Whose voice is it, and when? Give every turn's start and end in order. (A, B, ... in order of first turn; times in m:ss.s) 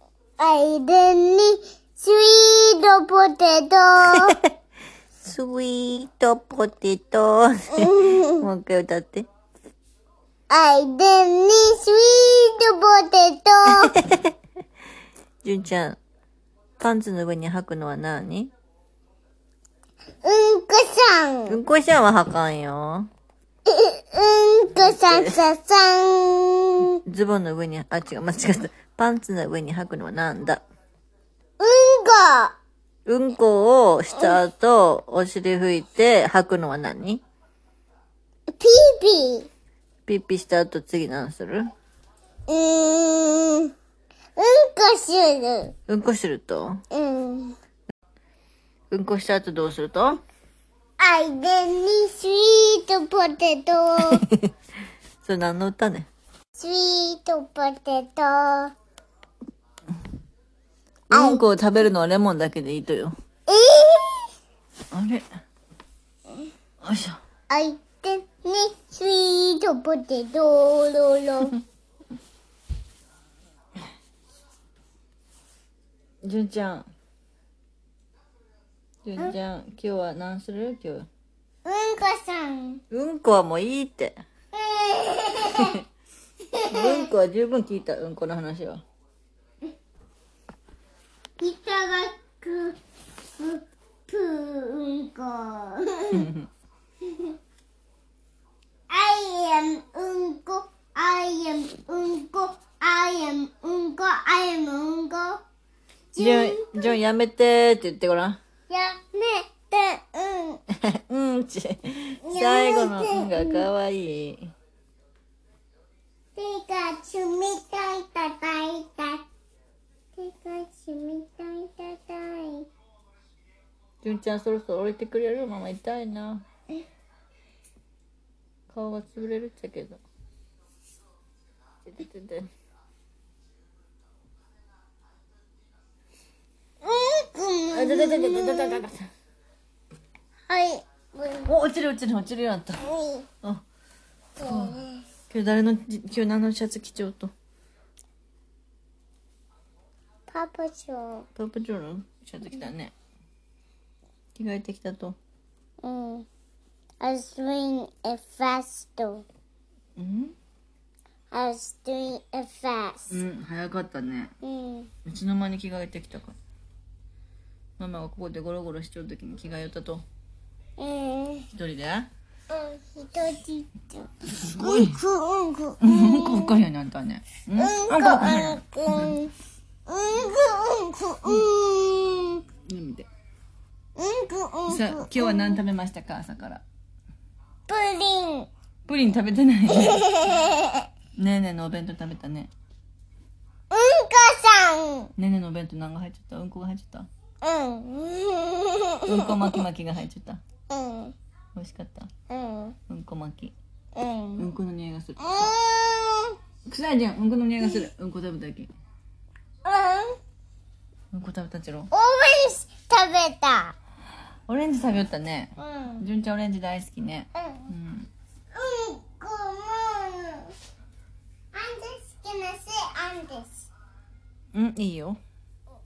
0:00.4-0:04.4 A
0:05.2-0:09.3 B
0:07.7-0:08.4 A
0:10.5-0:13.9 A
0:13.9-0:14.3 B
0:15.4-0:16.0 B
0:16.8-0:18.5 B
0:20.2-0:21.6 A
0:21.5-0:23.1 B
0:23.7-0:27.0 A
0:24.8-0:25.4 B
0:27.0-0:30.6 B
0:31.6-0:32.6 A
0:33.0-0:37.2 B
0:38.5-0:39.5 A
0:40.1-0:41.7 B
0:42.5-0:43.7 A
0:44.4-0:45.7 A
0:45.9-0:46.8 B
0:46.9-0:47.6 A
0:48.9-0:50.2 B
0:51.0-0:54.2 A
0:54.1-0:54.5 B
0:55.2-0:56.1 B
0:56.5-0:58.7 A
1:01.1-1:03.1 B
1:01.1-1:01.4 A
1:03.5-1:04.3 A
1:04.9-1:05.2 B
1:06.8-1:07.2 B
1:07.5-1:11.6 A
1:16.2-1:16.9 B
1:19.0-1:21.1 B
1:21.6-1:22.8 A
1:22.9-1:24.2 B
1:24.5-1:25.8 A
1:26.5-1:27.1 A
1:26.7-1:28.8 B
1:31.4-1:32.8 A
1:33.3-1:36.2 A
1:36.1-1:36.5 B
1:37.1-1:37.3 A
1:38.9-1:45.4 A
1:46.1-1:47.0 A
1:46.2-1:48.4 B
1:48.7-1:50.6 A
1:50.8-1:54.5 B
1:52.2-1:53.7 A
1:56.3-1:59.2 A
2:00.1-2:02.7 A
2:04.0-2:06.4 B
2:08.7-2:10.0 B
2:11.8-2:12.5 B
2:16.8-2:18.8 A
2:17.7-2:19.1 B
2:20.5-2:21.5 A
2:21.4-2:22.8 B
2:22.8-2:23.3 A
2:24.4-2:25.0 A
2:24.4-2:27.3 B
2:30.3-2:31.3 A
2:31.4-2:32.9 B
2:34.3-2:35.2 B
2:35.8-2:36.3 A
2:37.0-2:39.2 A
2:40.0-2:40.3 B
2:41.3-2:43.1 A
2:43.1-2:44.3 B
2:44.4-2:44.9 A
2:45.0-2:46.3 B
2:47.8-2:50.0 B
2:50.8-2:51.5 A
2:51.5-2:52.1 B
2:52.5-2:56.6 A
2:54.4-2:55.0 B
2:55.8-2:59.2 B
2:57.5-2:59.3 A
2:59.9-3:02.4 A
3:02.6-3:03.1 B
3:04.0-3:05.6 A
3:04.7-3:06.6 B
3:07.7-3:08.5 A
3:08.9-3:10.4 B
3:09.7-3:10.8 A
3:11.2-3:12.5 B
3:13.7-3:15.1 A
3:15.2-3:17.1 B
3:17.4-3:19.6 A
3:19.1-3:20.4 B
3:20.7-3:21.1 A
3:21.5-3:22.1 B
3:22.3-3:22.8 A
3:22.9-3:23.5 B
3:23.9-3:24.5 A
3:24.4-3:25.5 B
3:25.2-3:26.4 A
3:26.6-3:28.7 B
3:29.6-3:30.2 A
3:31.1-3:31.9 B
3:31.9-3:33.8 A
3:34.5-3:38.1 B
3:35.6-3:36.0 A
3:37.3-3:37.7 A
3:38.5-3:40.5 A
3:41.5-3:43.7 A
3:44.5-3:45.2 B